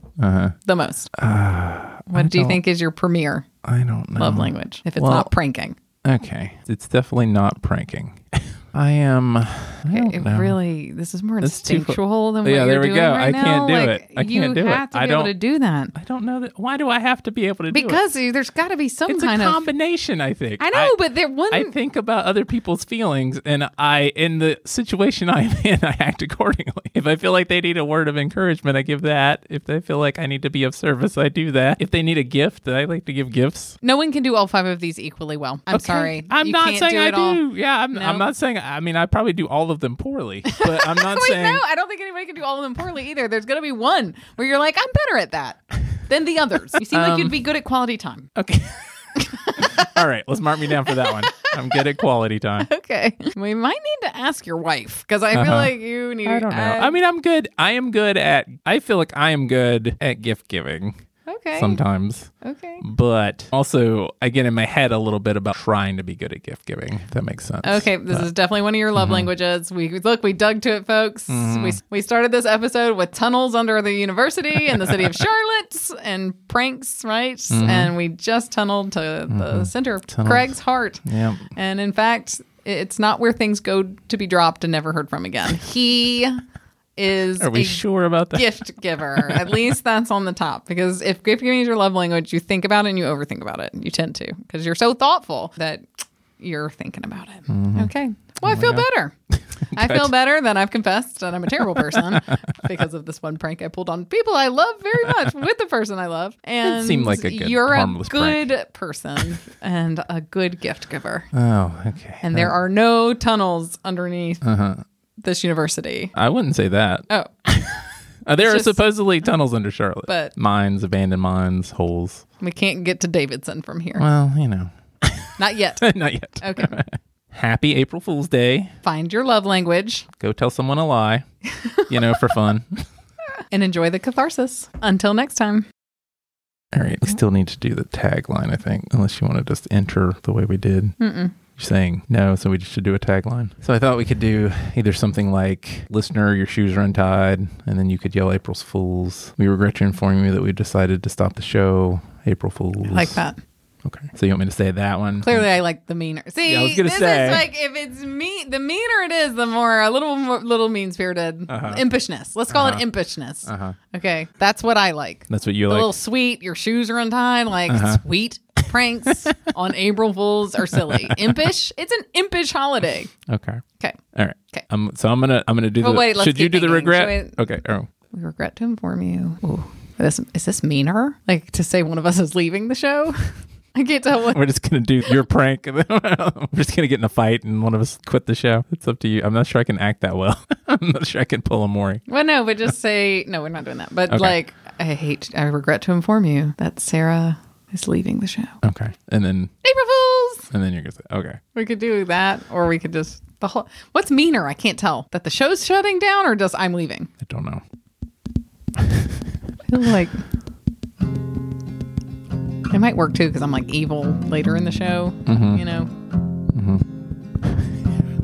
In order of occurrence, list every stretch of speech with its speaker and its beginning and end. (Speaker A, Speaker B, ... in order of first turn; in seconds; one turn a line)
Speaker A: 0.2-0.6
Speaker B: 0.7-1.1
Speaker A: 1.1-2.6
Speaker B: 2.1-3.5
Speaker A: 3.6-5.3
Speaker B: 4.2-5.8
Speaker A: 6.0-10.6
Speaker B: 9.9-15.9
Speaker A: 11.4-15.3
Speaker A: 15.9-18.0
Speaker B: 17.7-19.6
Speaker A: 19.1-21.0
Speaker B: 20.6-21.7
Speaker A: 21.5-33.8
Speaker B: 33.8-38.3
Speaker A: 35.7-41.6
Speaker B: 40.5-48.3
Speaker A: 46.9-47.4
Speaker A: 48.4-52.7
Speaker B: 49.2-49.9
Speaker B: 50.8-52.0
Speaker B: 52.6-57.0
Speaker A: 55.3-68.3
Speaker B: 61.3-61.8
Speaker B: 62.4-62.8
Speaker B: 67.6-81.0
Speaker A: 69.0-69.3
Speaker A: 71.3-71.8
Speaker A: 77.5-77.9
Speaker A: 79.3-80.5
Speaker A: 81.0-81.5
Speaker B: 81.5-86.4
Speaker B: 87.0-95.9
Speaker A: 87.4-88.6
Speaker A: 89.1-89.5
Speaker B: 96.4-99.1
Speaker A: 97.5-97.9
Speaker A: 98.4-98.9
Speaker A: 99.7-100.1
Speaker B: 99.7-111.3
Speaker A: 101.7-102.5
Speaker A: 106.6-108.5
Speaker A: 111.3-112.5
Speaker B: 112.2-114.4
Speaker A: 114.4-114.8
Speaker B: 115.2-116.1
Speaker A: 116.2-122.2
Speaker B: 118.4-118.8
Speaker B: 120.1-120.3
Speaker B: 122.4-124.0
Speaker A: 124.0-128.7
Speaker B: 125.4-126.7
Speaker B: 128.8-130.1
Speaker A: 130.2-131.2
Speaker B: 131.5-132.1
Speaker A: 131.8-132.8
Speaker B: 133.5-135.7
Speaker A: 136.7-141.0
Speaker B: 141.0-141.4
Speaker A: 141.5-153.2
Speaker B: 152.8-153.4
Speaker A: 153.8-155.5
Speaker B: 155.2-173.1
Speaker A: 156.4-157.4
Speaker A: 161.5-161.8
Speaker A: 162.5-162.8
Speaker A: 163.5-163.8
Speaker A: 165.3-165.9
Speaker A: 167.7-168.0
Speaker A: 170.8-171.4
Speaker A: 173.3-173.6
Speaker A: 174.1-177.9
Speaker B: 175.8-177.4
Speaker B: 178.1-184.4
Speaker A: 184.2-192.0
Speaker B: 192.1-198.6
Speaker A: 194.1-194.3
Speaker A: 198.6-199.5
Speaker B: 199.6-200.5
Speaker A: 200.5-201.4
Speaker B: 201.6-207.1
Speaker A: 207.2-207.6
Speaker A: 208.8-209.2
Speaker B: 209.7-210.2
Speaker B: 212.7-215.9
Speaker A: 215.3-215.6
Speaker A: 216.5-216.9
Speaker A: 217.4-217.8